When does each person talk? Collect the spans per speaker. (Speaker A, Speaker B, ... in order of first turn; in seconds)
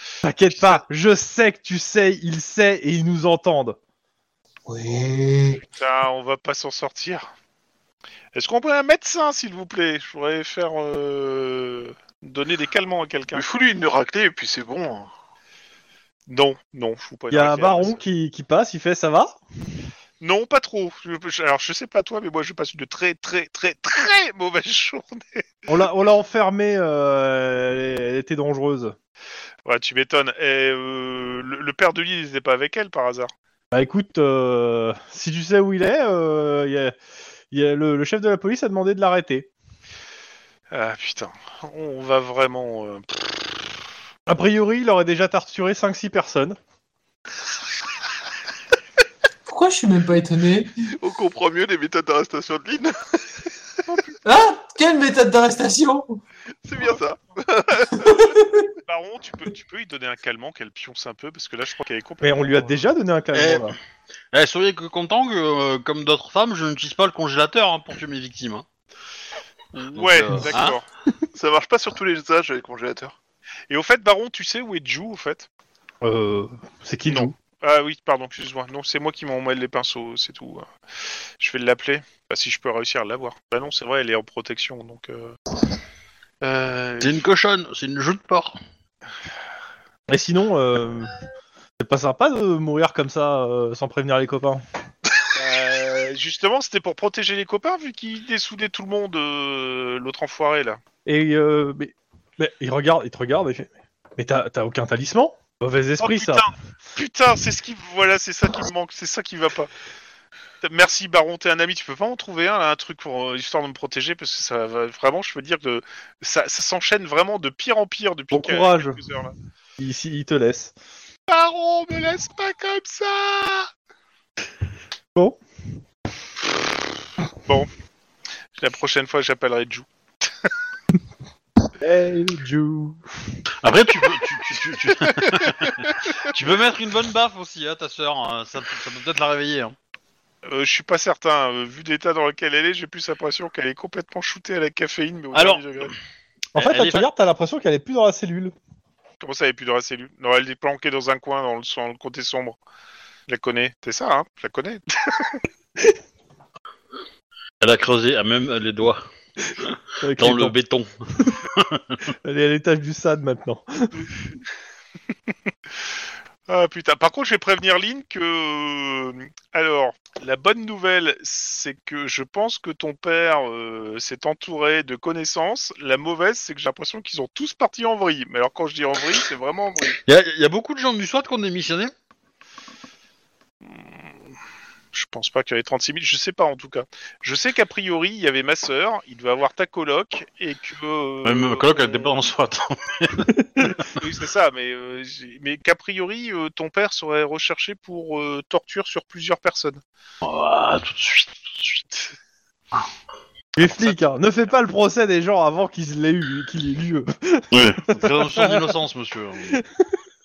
Speaker A: 0.2-3.8, 17.3-19.4, 25.7-29.0, 33.7-37.0, 37.5-39.5, 44.3-46.6, 62.2-63.8, 76.0-77.3, 90.1-91.1, 91.8-94.6, 101.1-106.5, 118.3-119.0, 119.8-120.7, 131.8-133.1, 146.6-148.5, 160.0-160.6, 162.2-163.9, 193.4-193.7, 203.6-208.7, 209.5-209.9
Speaker B: 0.5-0.8, 5.7-7.3, 8.3-13.4, 16.3-18.0, 20.2-25.4, 29.6-33.3, 40.7-43.8, 58.8-62.9, 69.8-70.9, 73.7-75.5, 77.1-80.7, 81.4-85.3, 86.4-87.2, 95.3-100.8, 106.0-109.7, 110.6-119.3, 121.3-123.7, 128.6-129.9, 140.4-145.9, 149.2-152.6, 153.3-155.4, 166.5-180.0, 183.6-184.0, 184.9-192.2, 193.9-199.8
Speaker C: 4.7-5.6, 49.5-50.7, 54.2-56.2, 57.9-58.7
Speaker D: 13.3-15.1, 51.0-53.4, 56.6-58.2, 71.4-73.2
Speaker E: 63.3-63.7, 64.3-68.7, 69.9-70.8, 87.0-88.6, 133.6-139.8, 145.3-145.6, 146.6-147.1, 157.6-159.0, 159.6-162.0, 180.1-181.9, 191.2-193.9, 200.2-201.8, 207.5-209.6